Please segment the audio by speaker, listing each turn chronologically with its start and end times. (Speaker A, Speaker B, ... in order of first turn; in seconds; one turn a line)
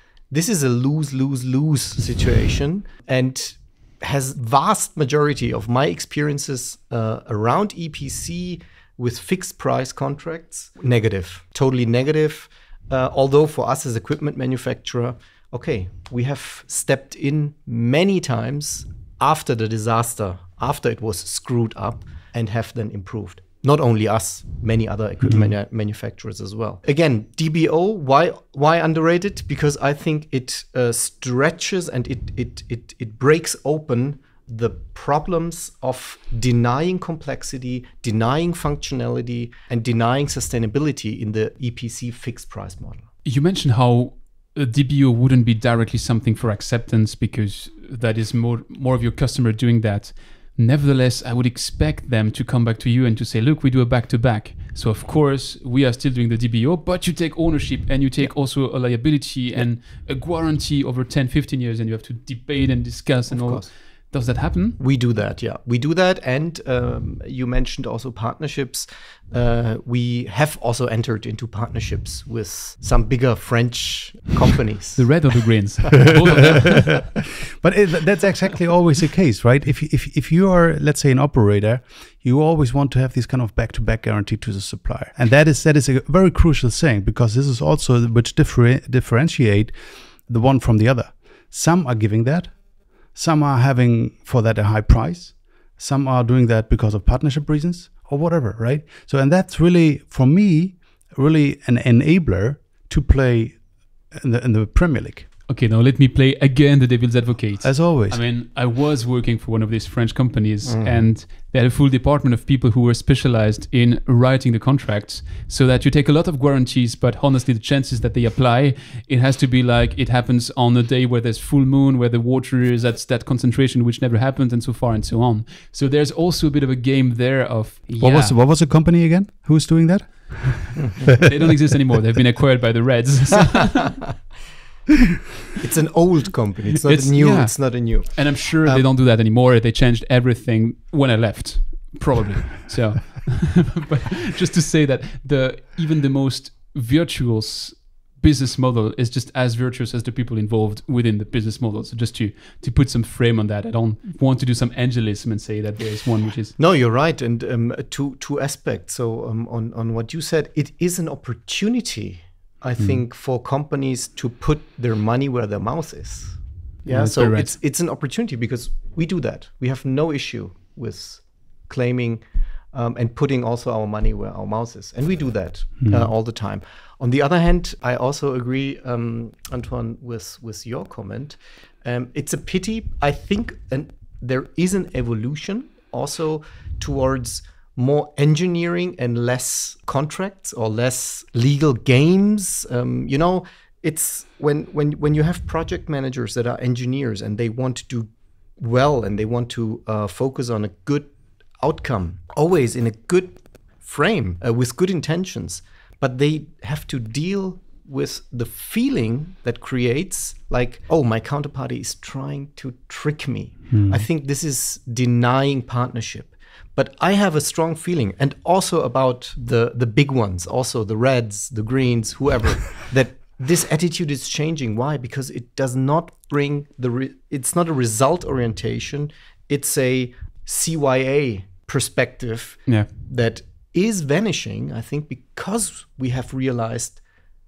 Speaker A: 0.3-43.0
Speaker B: 25.2-25.5
Speaker C: 43.2-64.8
Speaker A: 63.3-63.7
Speaker A: 64.8-75.3
Speaker C: 75.0-76.9
Speaker B: 77.4-89.7
Speaker B: 90.3-92.6
Speaker B: 93.1-103.6
Speaker B: 104.1-105.3
Speaker C: 105.5-128.3
Speaker B: 107.6-108.2
Speaker A: 110.7-111.0
Speaker B: 128.0-130.9
Speaker A: 130.8-131.1
Speaker C: 131.1-134.0
Speaker A: 135.6-138.8
Speaker C: 136.8-156.6
Speaker A: 156.6-172.2
Speaker C: 166.9-167.5
Speaker A: 172.7-237.0
Speaker B: 175.8-176.1
Speaker B: 213.7-214.1